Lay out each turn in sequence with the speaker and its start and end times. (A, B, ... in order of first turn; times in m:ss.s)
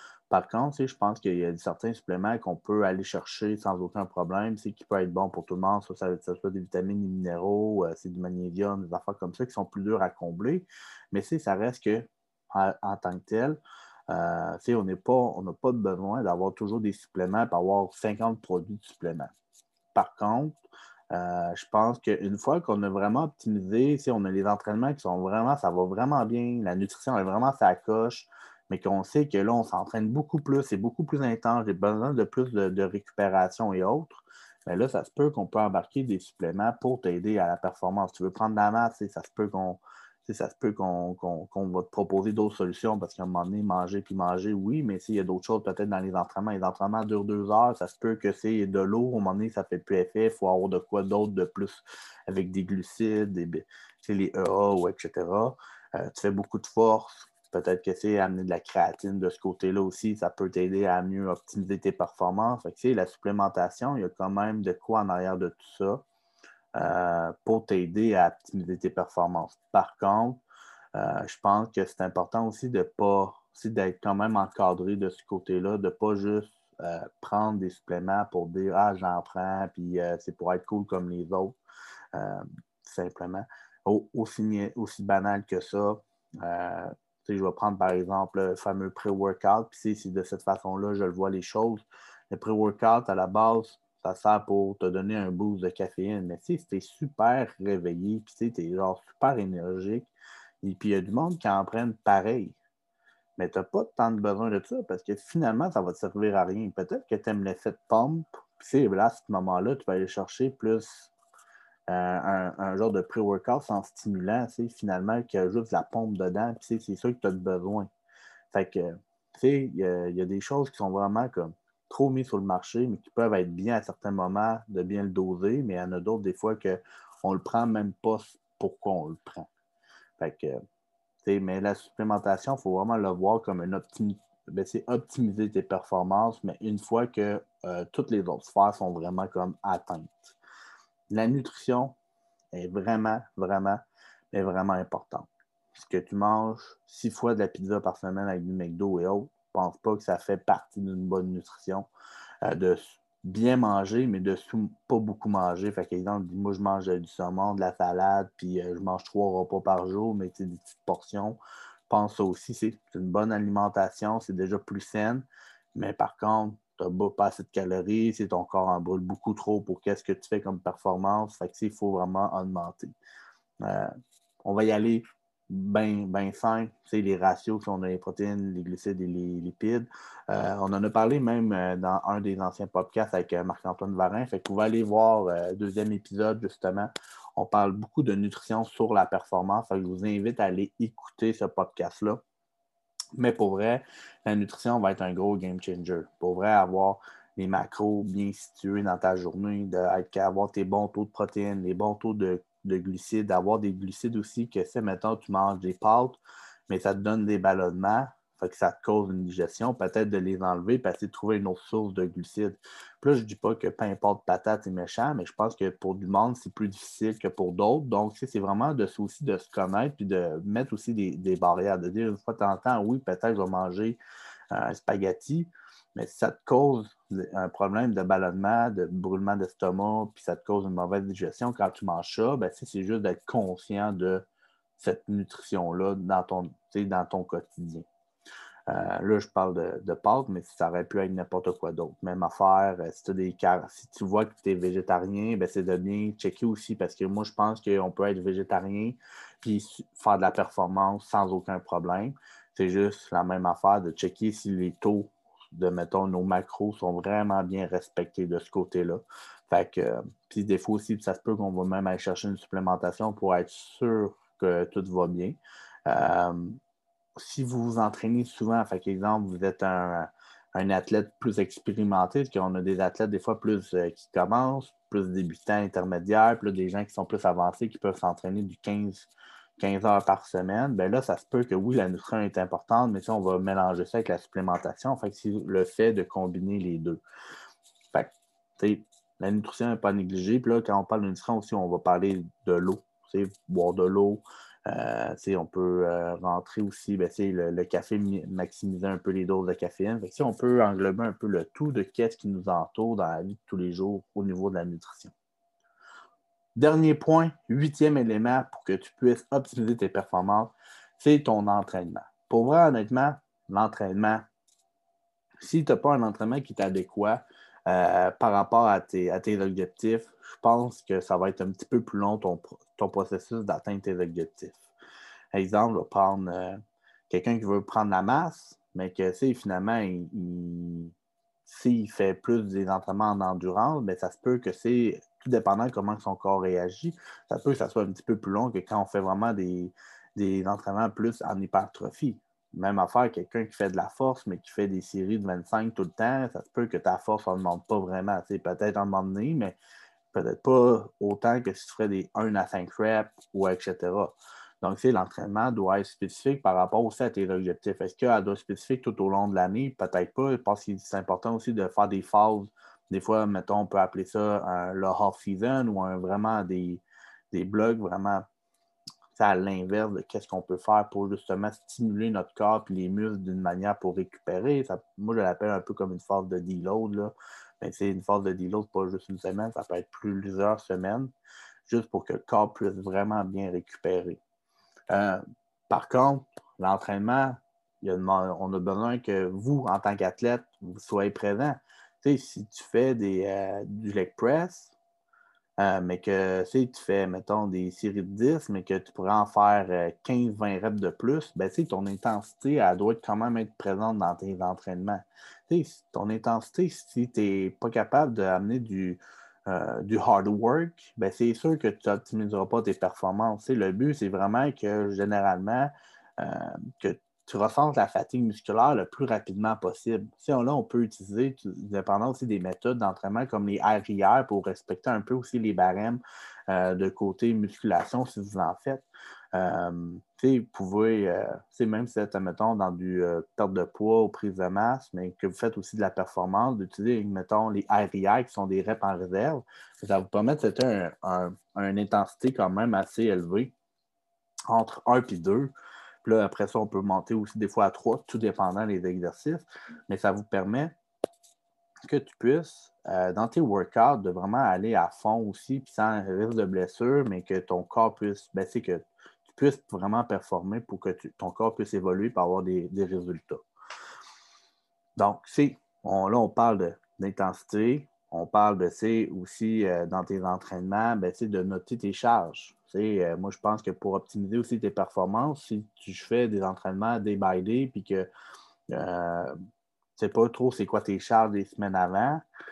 0:00.3-0:19.3 A
0:19.9-0:20.6 A
0:21.1-1:06.0 A
1:06.8-1:10.4 A
1:10.9-1:21.6 A
1:22.1-1:40.1 A
1:40.6-1:42.6 A
1:43.4-1:51.1 A
1:51.9-1:57.9 A
1:58.5-2:09.5 A
2:10.2-2:10.6 A
2:11.2-2:20.4 A
2:21.1-2:22.0 A
2:22.5-2:23.8 A
2:24.3-2:31.9 A
2:32.4-2:41.4 A
2:41.9-2:53.0 A
2:53.6-2:53.9 A
2:54.4-3:12.2 A
3:13.2-3:44.0 A
3:44.5-3:54.2 A
3:54.8-3:57.9 A
3:58.7-4:26.6 A
4:27.2-4:47.0 A
4:47.9-5:05.1 A
5:06.6-5:14.2 A
5:15.4-5:24.7 A
5:25.3-5:30.9 A
5:31.5-5:49.6 A
5:50.1-6:08.3 A
6:09.2-6:21.1 A
6:21.7-6:24.2 A
6:24.9-6:34.8 A
6:35.6-7:23.5 A
7:24.5-7:25.5 A
7:26.0-7:30.7 A
7:31.9-7:43.4 A
7:45.0-7:58.1 A
7:58.7-7:59.3 A
8:00.0-8:02.2 A